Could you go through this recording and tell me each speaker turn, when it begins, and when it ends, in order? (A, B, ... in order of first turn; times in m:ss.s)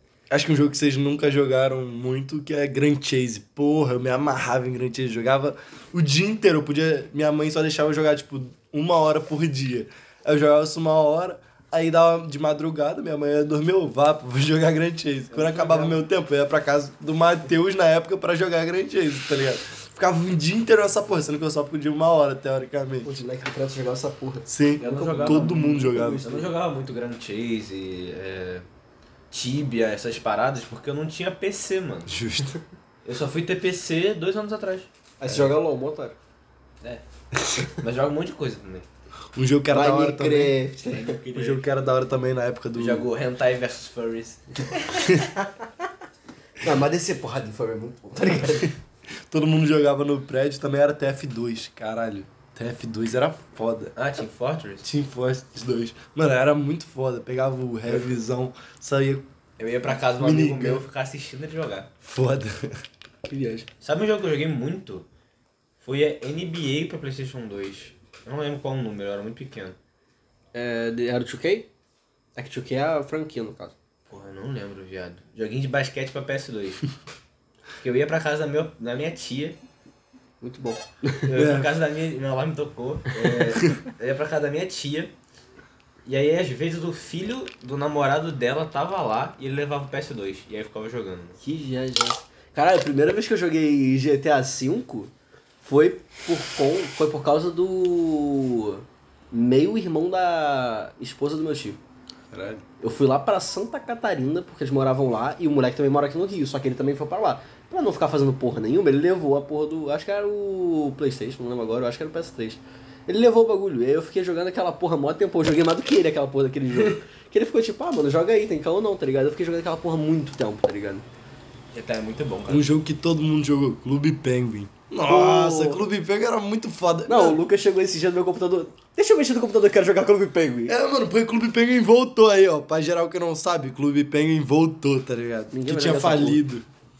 0:00.3-0:23.2 A
0:15.3-0:16.0 B
0:23.0-0:26.5 C
0:24.5-0:26.3 A
0:24.8-0:28.7 B
0:29.3-0:32.2 B
0:32.1-0:32.6 A
0:33.0-0:34.9 B
0:35.2-0:36.2 C
0:35.3-0:35.5 A
0:37.7-0:38.9 B
0:39.4-0:40.6 A
0:39.7-0:41.2 C
0:40.8-0:41.9 B
0:41.3-0:43.1 A
0:42.8-0:45.0 B
0:46.6-0:48.7 C
0:49.3-0:53.9 A
0:54.0-0:54.9 B
0:54.8-0:59.3 A
0:59.6-1:01.9 B
1:00.2-1:00.8 A
1:02.0-1:02.7 A
1:03.3-1:03.7 C
1:03.8-1:05.1 B
1:05.8-1:09.8 B
1:10.5-1:11.7 C
1:12.4-1:13.8 C
1:14.1-1:16.9 B
1:17.8-1:19.6 B
1:20.4-1:21.3 C
1:21.2-1:25.1 B
1:21.3-1:21.7 A
1:26.0-1:31.4 B
1:31.4-1:41.8 C
1:42.3-1:42.6 A
1:42.8-2:01.0 C
2:01.7-2:02.7 B
2:02.5-2:07.4 A
2:05.1-2:05.9 C
2:07.1-2:10.8 C
2:10.7-2:16.6 A
2:15.5-2:16.4 C